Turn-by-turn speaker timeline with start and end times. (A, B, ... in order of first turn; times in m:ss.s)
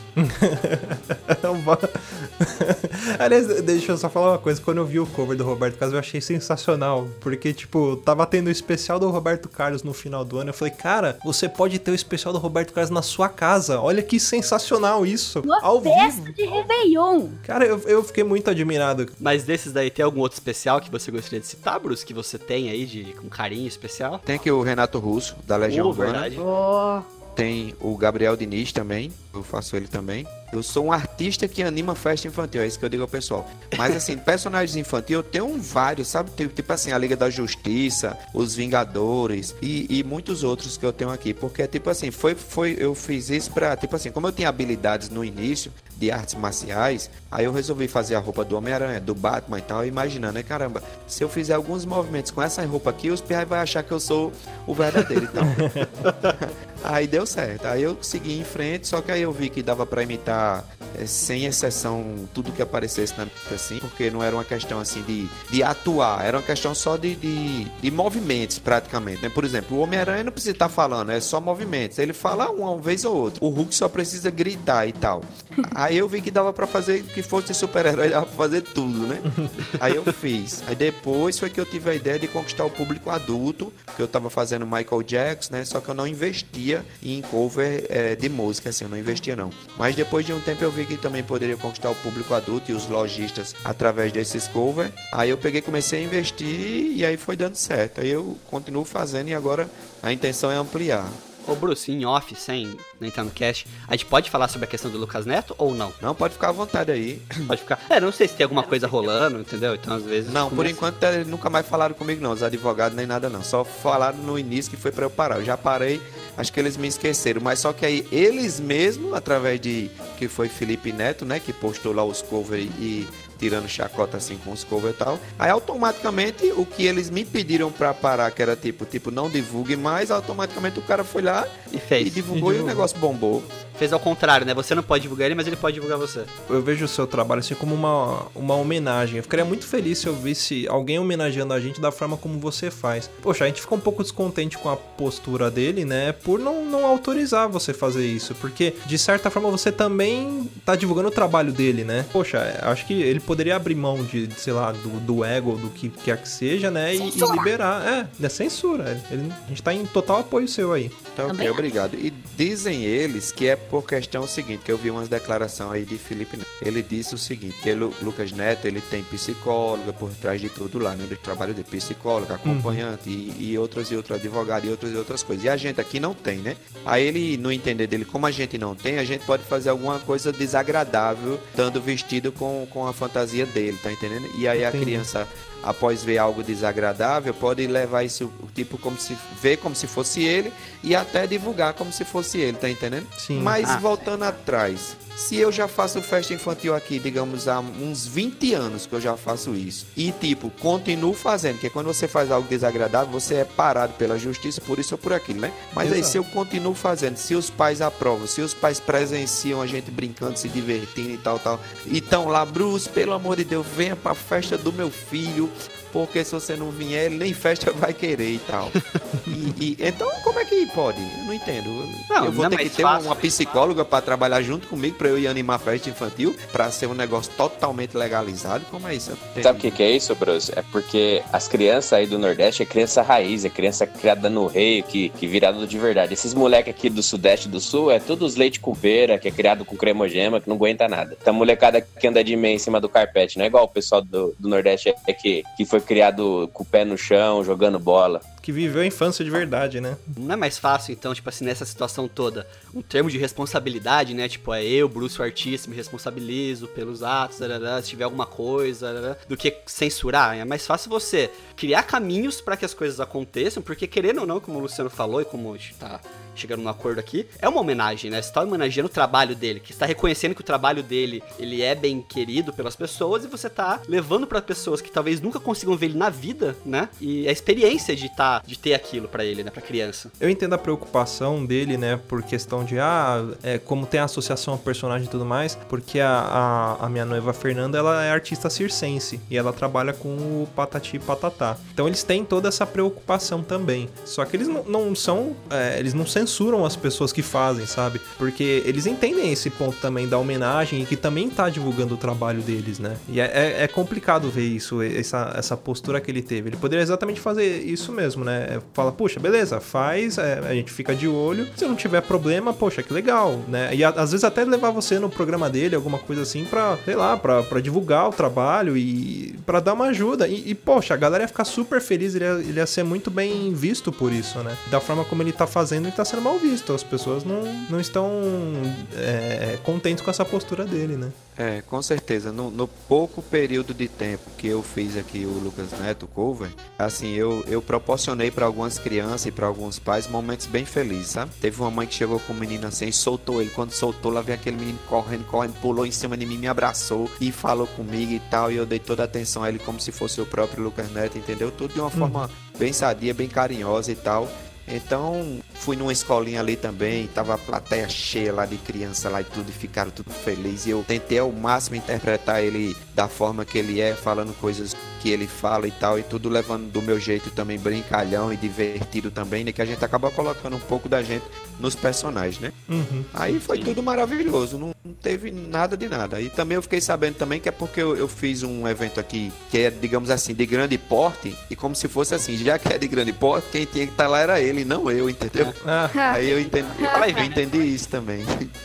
0:00.2-0:16.4 A
0:15.4-0:17.4 B
0:17.4-0:19.1 A
0:19.2-0:24.2 C
0:24.2-0:26.4 D
0:25.7-0:26.4 C
0:26.4-0:27.0 B
0:27.3-0:55.7 D
0:55.5-0:55.9 A
0:56.0-0:56.3 C
0:56.3-1:41.2 D
1:19.3-1:19.5 A
1:41.4-1:46.0 C
1:46.0-1:47.5 D
1:47.5-1:50.8 C
1:48.6-1:49.1 D
1:50.3-2:13.5 D
2:11.7-2:12.2 C
2:12.3-2:12.9 A
2:13.8-2:16.3 C
2:16.5-2:41.0 A
2:37.0-2:37.5 B
2:41.1-3:38.8 D
2:41.3-2:41.7 B
2:52.4-2:52.8 A
3:04.6-3:05.1 A
3:13.2-3:13.6 A
3:25.8-3:26.2 A
3:39.3-3:49.8 D
3:42.1-3:43.4 C
3:49.4-4:08.2 E
4:08.4-4:10.1 A
4:10.2-4:40.1 C
4:40.2-5:31.1 A
5:31.4-6:12.5 D
5:52.0-5:52.2 A
6:12.7-6:13.4 A
6:13.1-6:25.5 D
6:25.6-6:26.0 A
6:25.9-6:26.2 B
6:26.0-6:28.5 D
6:26.1-6:27.7 C
6:26.8-6:27.2 B